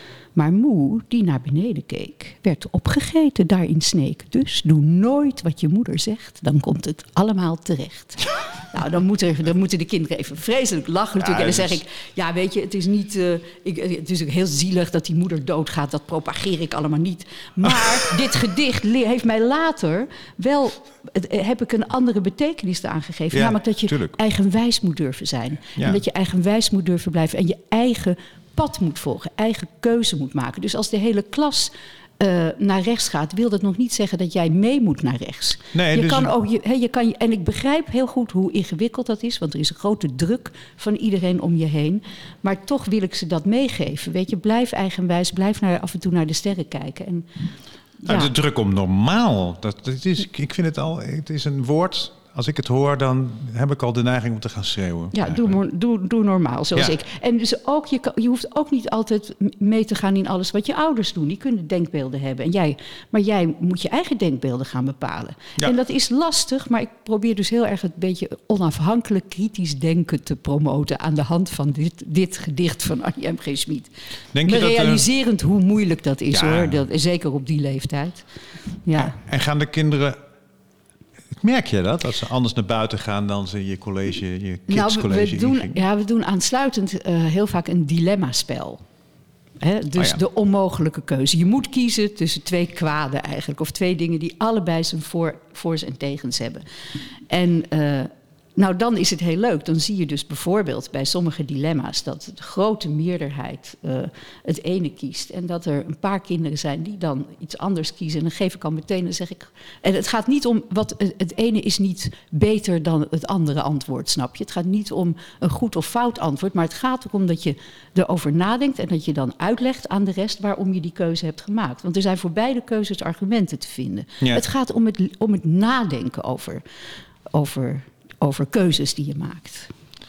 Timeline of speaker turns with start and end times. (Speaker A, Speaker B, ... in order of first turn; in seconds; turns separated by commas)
Speaker A: 0.3-47.3, Speaker B: 11.2-11.8, Speaker B: 23.3-24.2, Speaker B: 35.7-36.3, Speaker A: 48.0-48.3, Speaker B: 48.1-55.6, Speaker A: 55.1-73.9, Speaker B: 74.3-75.0, Speaker A: 74.4-79.2, Speaker B: 76.3-76.8, Speaker B: 79.0-80.2, Speaker B: 81.4-85.8, Speaker A: 84.7-88.8, Speaker A: 89.6-126.6, Speaker A: 127.3-129.7